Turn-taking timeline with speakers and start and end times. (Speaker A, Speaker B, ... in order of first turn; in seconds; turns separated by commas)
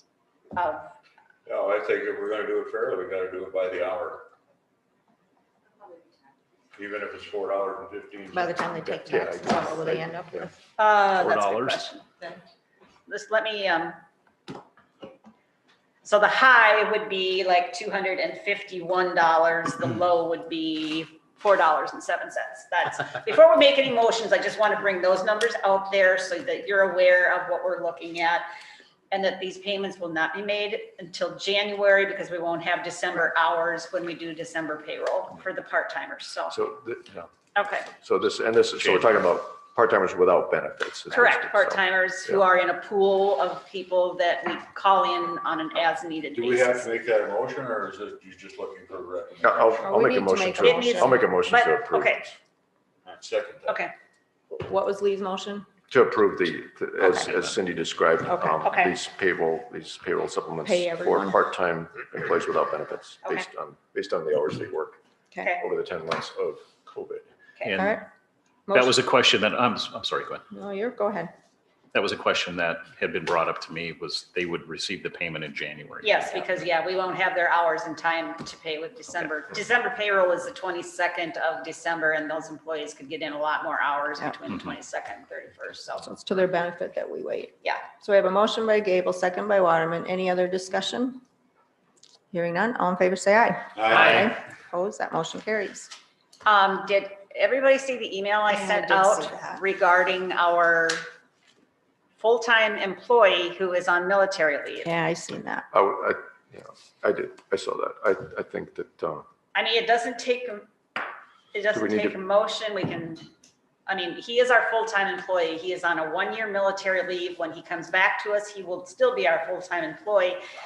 Speaker A: 0.5-0.9, Speaker B: 1.5-4.3, Speaker B: 6.8-8.6, Speaker C: 8.3-10.6, Speaker D: 8.7-10.5, Speaker A: 10.8-12.1, Speaker E: 11.2-11.8, Speaker A: 13.1-14.0, Speaker A: 16.0-28.5, Speaker A: 29.1-36.6, Speaker D: 36.5-37.3, Speaker A: 37.5-37.9, Speaker D: 37.9-42.4, Speaker E: 38.8-39.1, Speaker A: 41.1-46.9, Speaker B: 46.3-49.9, Speaker D: 49.4-52.3, Speaker C: 49.8-51.2, Speaker A: 50.6-52.3, Speaker B: 53.0-53.8, Speaker A: 53.7-53.9, Speaker C: 54.5-55.7, Speaker D: 55.9-65.0, Speaker E: 57.0-57.6, Speaker C: 58.3-58.6, Speaker A: 58.6-59.0, Speaker C: 60.6-61.4, Speaker D: 65.6-67.3, Speaker E: 67.6-68.0, Speaker C: 67.8-68.0, Speaker C: 68.7-69.0, Speaker E: 68.7-70.4, Speaker C: 70.5-71.3, Speaker E: 71.9-76.2, Speaker A: 76.0-86.1, Speaker C: 86.0-91.2, Speaker C: 92.3-95.9, Speaker B: 93.8-94.1, Speaker A: 96.5-101.0, Speaker C: 98.5-99.6, Speaker A: 102.2-104.9, Speaker C: 104.8-105.7, Speaker D: 105.7-109.3, Speaker A: 109.5-110.7, Speaker A: 111.5-113.3, Speaker D: 111.7-112.2, Speaker A: 113.9-120.4